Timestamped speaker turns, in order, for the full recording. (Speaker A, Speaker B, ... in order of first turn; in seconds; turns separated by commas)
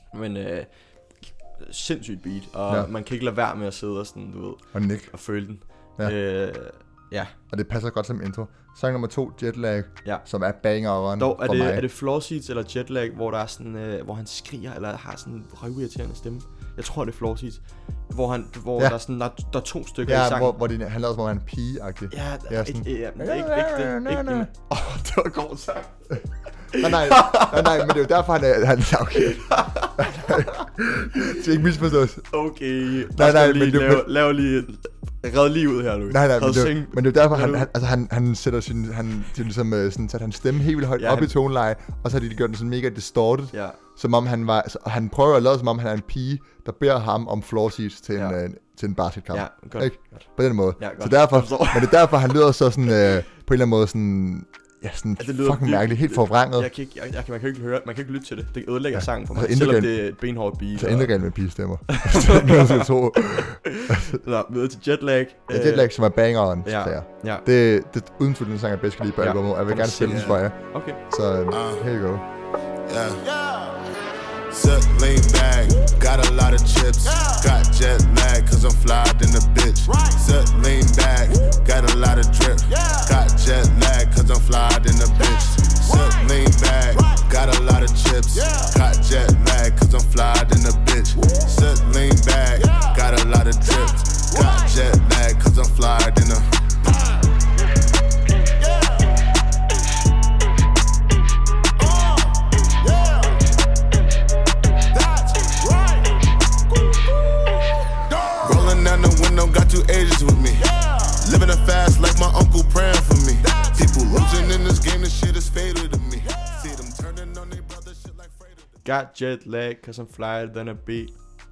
Speaker A: 0.1-7.3, Speaker B: 4.7-5.1, Speaker B: 7.5-11.8, Speaker A: 11.2-20.5, Speaker B: 20.1-24.5, Speaker A: 22.1-28.0, Speaker B: 26.7-32.3, Speaker A: 29.1-30.6, Speaker A: 31.1-31.5, Speaker A: 32.3-37.7, Speaker B: 33.1-34.1, Speaker B: 36.1-56.7, Speaker A: 41.0-41.3, Speaker A: 43.5-43.8, Speaker A: 49.3-52.3, Speaker A: 55.2-61.2, Speaker B: 58.9-60.2, Speaker B: 60.7-64.2, Speaker A: 61.9-65.9, Speaker B: 65.5-72.2, Speaker A: 66.6-67.4, Speaker A: 69.2-71.0, Speaker C: 71.5-71.8, Speaker C: 72.9-73.8, Speaker C: 74.5-96.5, Speaker C: 98.6-99.1, Speaker C: 101.8-103.4, Speaker C: 104.9-106.1, Speaker C: 108.2-118.7, Speaker A: 118.8-121.2